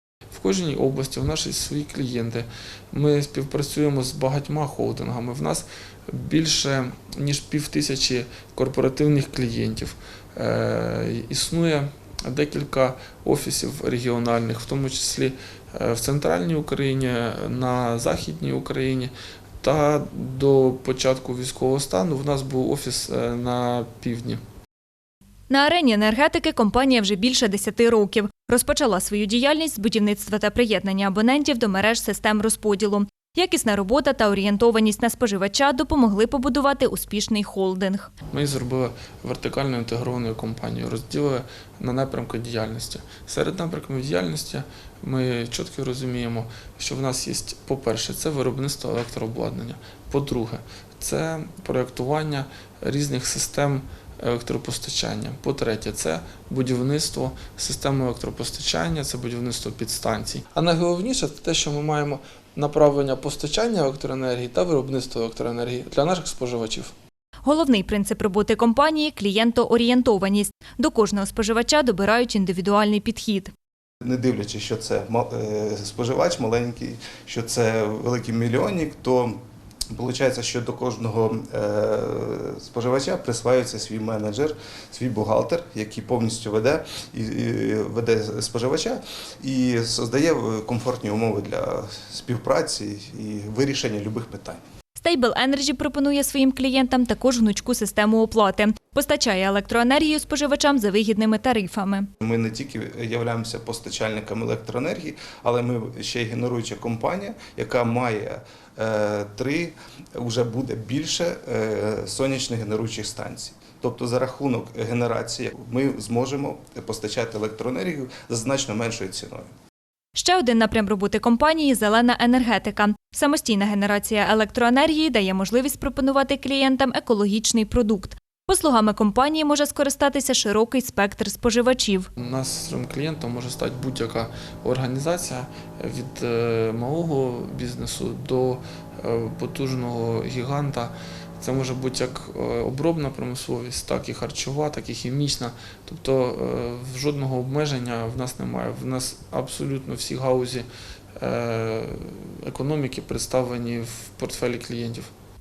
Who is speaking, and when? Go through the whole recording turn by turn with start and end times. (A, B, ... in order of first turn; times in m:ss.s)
0:00.3-0:24.4 A
0:25.5-0:38.1 B
0:38.3-1:06.9 A
1:07.4-1:13.5 B
1:14.0-1:19.4 C
1:19.9-1:34.6 C
1:35.0-1:42.1 B
1:42.2-1:59.5 C
2:00.1-2:12.1 B
2:12.2-2:35.1 A